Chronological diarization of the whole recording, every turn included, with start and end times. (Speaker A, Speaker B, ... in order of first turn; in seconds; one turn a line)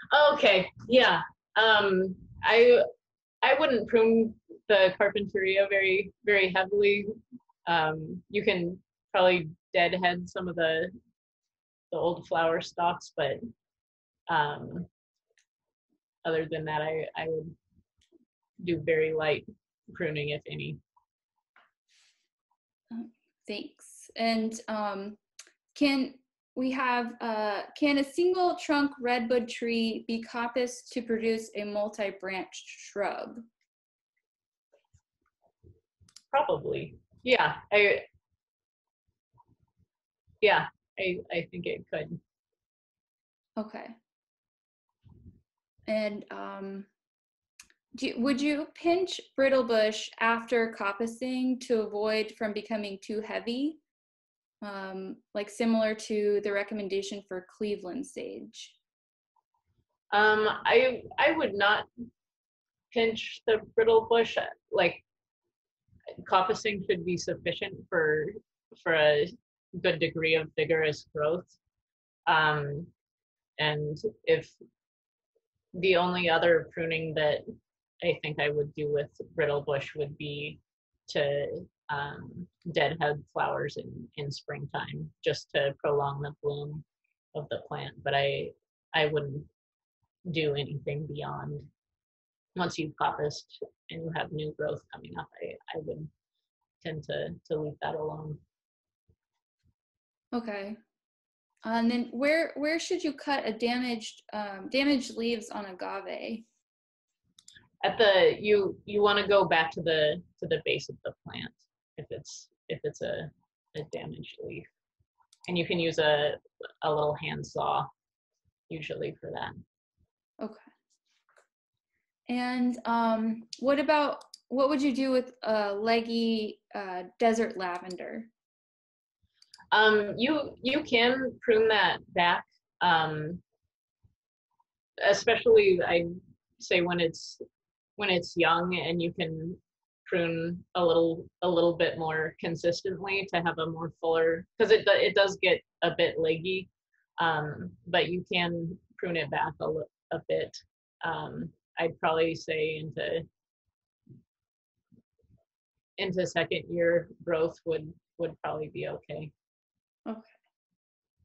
Speaker A: 0.1-2.9
Speaker A: 3.4-7.1
Speaker A: 7.7-10.9
Speaker A: 11.9-13.4
Speaker A: 14.3-14.9
Speaker A: 16.2-17.6
Speaker A: 18.6-20.8
Speaker B: 22.9-25.2
Speaker B: 25.7-33.4
Speaker A: 36.3-38.1
Speaker A: 40.4-42.2
Speaker B: 43.6-44.0
Speaker B: 45.9-46.9
Speaker B: 47.9-53.8
Speaker B: 54.6-58.8
Speaker A: 60.1-61.9
Speaker A: 62.9-65.0
Speaker A: 66.2-71.6
Speaker A: 72.3-72.9
Speaker A: 73.6-74.6
Speaker A: 75.7-77.4
Speaker A: 78.0-89.5
Speaker A: 90.3-91.7
Speaker A: 92.5-96.1
Speaker A: 96.8-98.4
Speaker B: 100.3-100.8
Speaker B: 101.7-106.5
Speaker A: 107.8-114.7
Speaker A: 115.5-117.9
Speaker A: 118.7-119.5
Speaker B: 122.3-128.3
Speaker A: 129.7-133.4
Speaker A: 135.0-136.1
Speaker A: 136.6-137.4
Speaker A: 138.0-153.2
Speaker A: 156.0-159.3
Speaker B: 160.1-160.3